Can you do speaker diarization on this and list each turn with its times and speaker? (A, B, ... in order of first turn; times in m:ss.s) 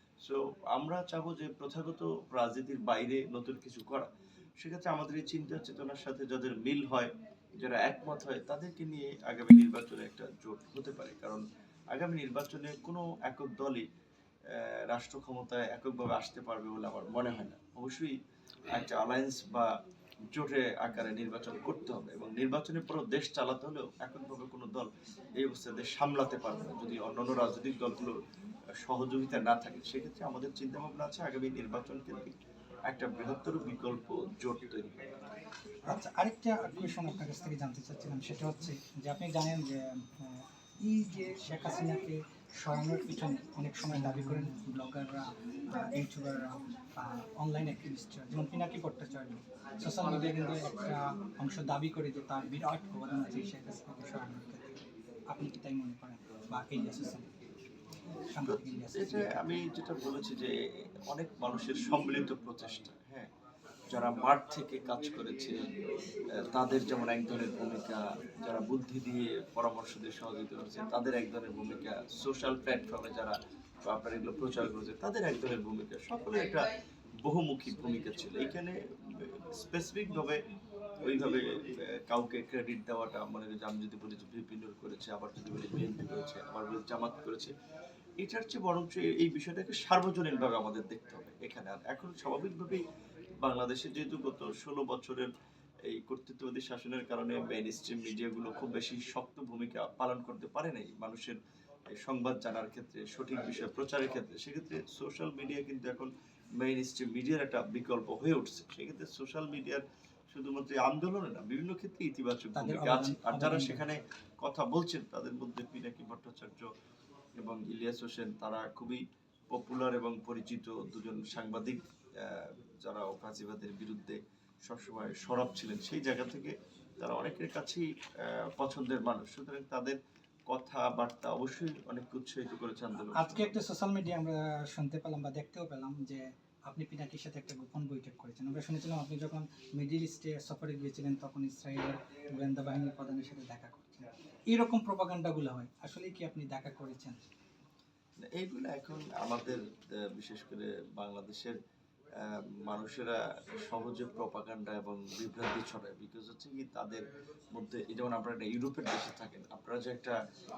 0:00.2-0:04.1 A
0:04.6-0:13.8 A
0:14.5-0:18.2 A
0:18.7-0:19.7 A
0:20.3-0:28.2 A
0:28.8-0:32.3 A
0:32.9-0:35.1 A
0:35.8-0:57.3 B
0:58.3-0:59.4 B
0:58.4-1:00.5 A
1:01.1-1:03.3 A
1:03.9-1:05.6 A
1:06.4-1:16.7 A
1:17.2-1:20.4 A
1:21.0-1:27.5 A
1:28.2-1:32.8 A
1:33.4-1:35.3 A
1:35.8-1:41.4 A
1:41.9-1:56.7 A
1:52.5-1:53.8 B
1:57.4-1:59.0 A
1:59.5-2:10.0 A
2:10.5-2:13.5 A
2:13.0-2:27.2 B
2:28.2-2:31.6 A
2:32.2-2:40.2 A